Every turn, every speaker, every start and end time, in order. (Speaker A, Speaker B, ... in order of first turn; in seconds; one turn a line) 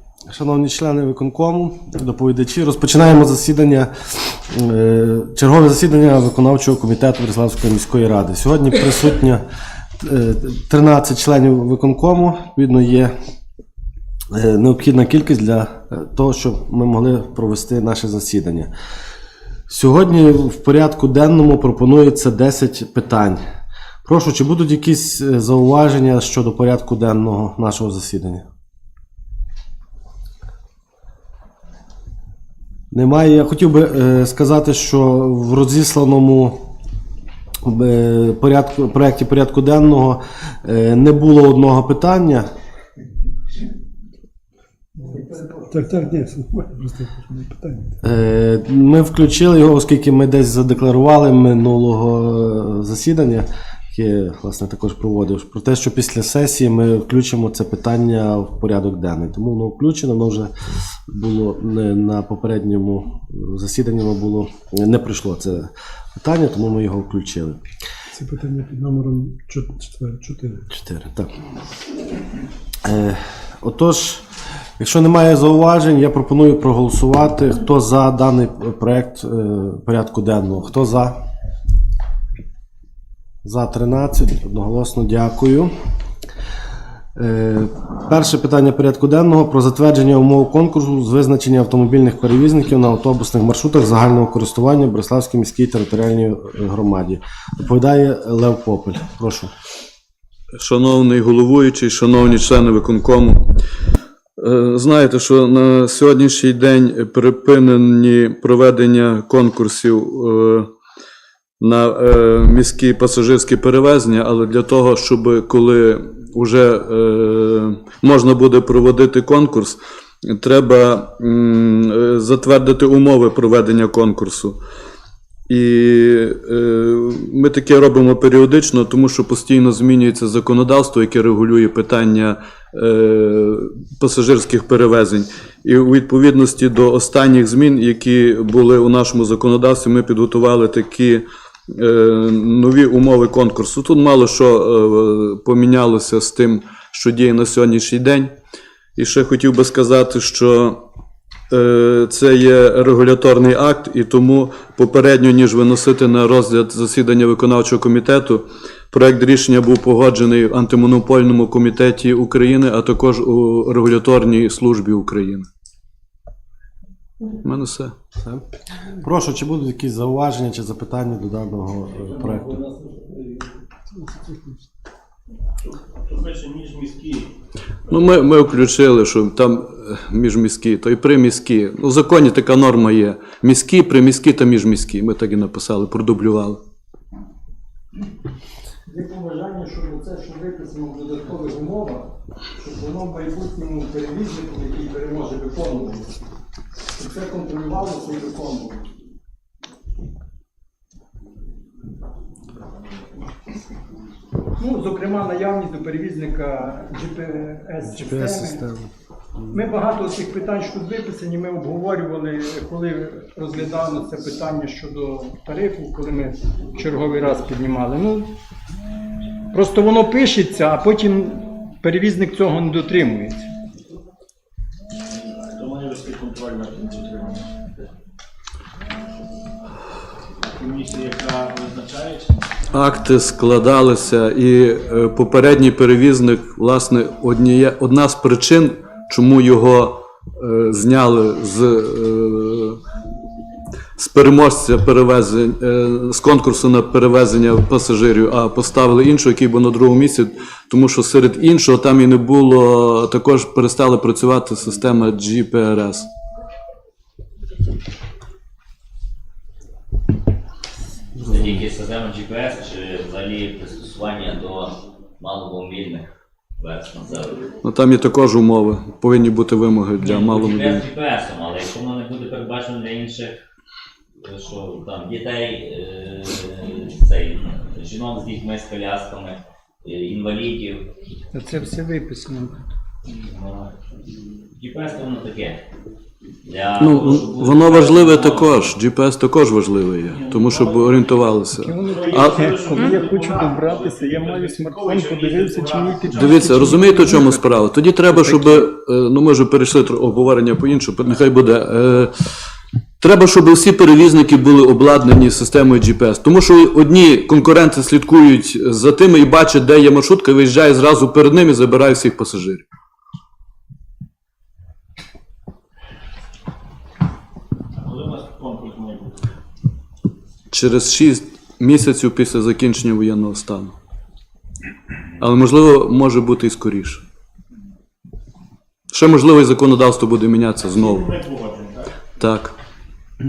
Speaker A: 0.3-9.4
Speaker A: 10.0-13.1
Speaker A: 14.3-18.7
Speaker A: 19.7-23.4
Speaker A: 24.0-28.4
Speaker A: 32.9-36.7
Speaker A: 37.6-42.5
Speaker B: 45.1-48.0
Speaker A: 48.0-60.5
Speaker A: 61.1-67.6
Speaker B: 68.2-70.7
Speaker A: 70.7-71.3
Speaker A: 72.8-74.2
Speaker A: 74.8-81.2
Speaker A: 83.4-85.7
Speaker A: 87.2-99.5
Speaker C: 100.6-103.4
Speaker C: 104.4-110.7
Speaker C: 111.6-124.6
Speaker C: 125.5-148.3
Speaker C: 149.0-150.8
Speaker C: 151.5-165.4
Speaker C: 167.4-167.9
Speaker A: 169.0-172.6
Speaker D: 175.7-177.3
Speaker C: 177.9-186.6
Speaker E: 188.9-192.1
Speaker E: 192.6-196.1
Speaker E: 197.0-198.8
Speaker E: 204.6-208.6
Speaker A: 207.9-208.9
Speaker E: 209.5-218.3
Speaker E: 219.5-223.4
Speaker D: 225.5-227.6
Speaker D: 230.4-232.5
Speaker C: 232.7-242.8
Speaker C: 244.0-256.1
Speaker A: 261.2-261.7
Speaker F: 261.2-266.1
Speaker F: 266.6-267.4
Speaker C: 267.6-270.9
Speaker F: 270.0-273.4
Speaker F: 274.2-280.9
Speaker E: 281.3-282.7
Speaker F: 283.3-283.6
Speaker F: 284.6-285.6
Speaker F: 286.5-288.7
Speaker C: 286.8-292.3
Speaker D: 290.1-296.9
Speaker E: 291.5-298.6
Speaker C: 296.2-302.1
Speaker C: 303.0-312.6
Speaker D: 317.8-319.1
Speaker C: 320.5-323.7
Speaker C: 325.2-327.0
Speaker C: 328.9-331.1
Speaker D: 330.6-332.0
Speaker C: 332.2-332.5